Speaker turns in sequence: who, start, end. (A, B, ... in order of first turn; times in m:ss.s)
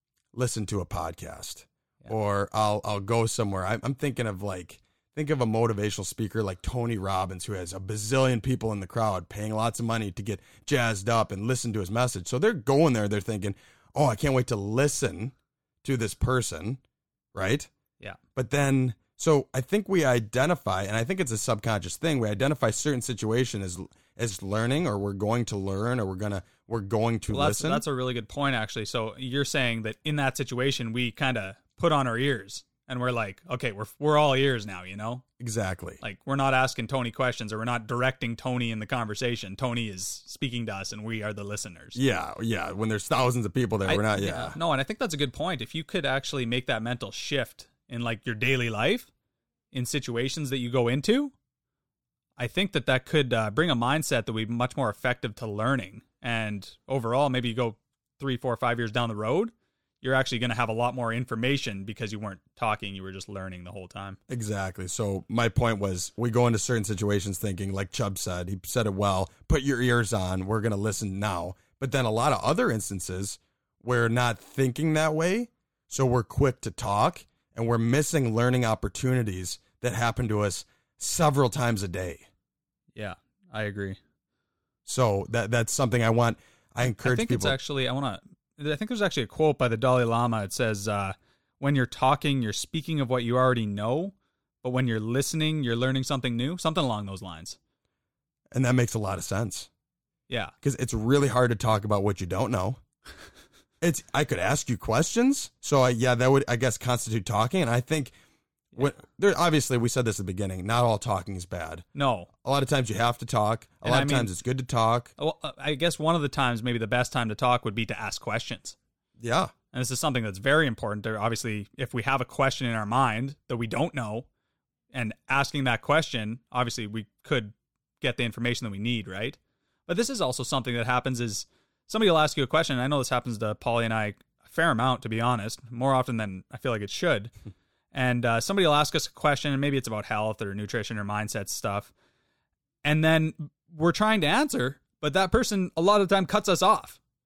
0:00.3-0:16.8 A
0:17.3-0:17.7 A
0:18.3-0:27.8 A
0:27.3-0:35.2 B
0:35.4-0:36.0 A
0:36.0-0:42.0 B
0:41.9-0:44.6 A
0:43.8-0:49.1 B
0:49.7-0:51.3 B
0:52.4-1:04.2 B
1:04.3-1:22.3 A
1:22.9-1:24.0 B
1:24.8-1:27.6 A
1:26.8-1:37.6 B
1:38.5-1:39.7 A
1:40.6-1:42.8 A
1:43.8-1:48.1 A
1:48.8-1:51.8 A
1:51.9-1:52.3 B
1:52.4-1:55.1 A
1:53.8-1:54.3 B
1:55.2-1:58.8 B
1:59.2-1:59.5 A
1:59.7-2:04.3 B
2:04.9-2:17.3 B
2:17.9-2:21.9 B
2:22.8-2:27.0 B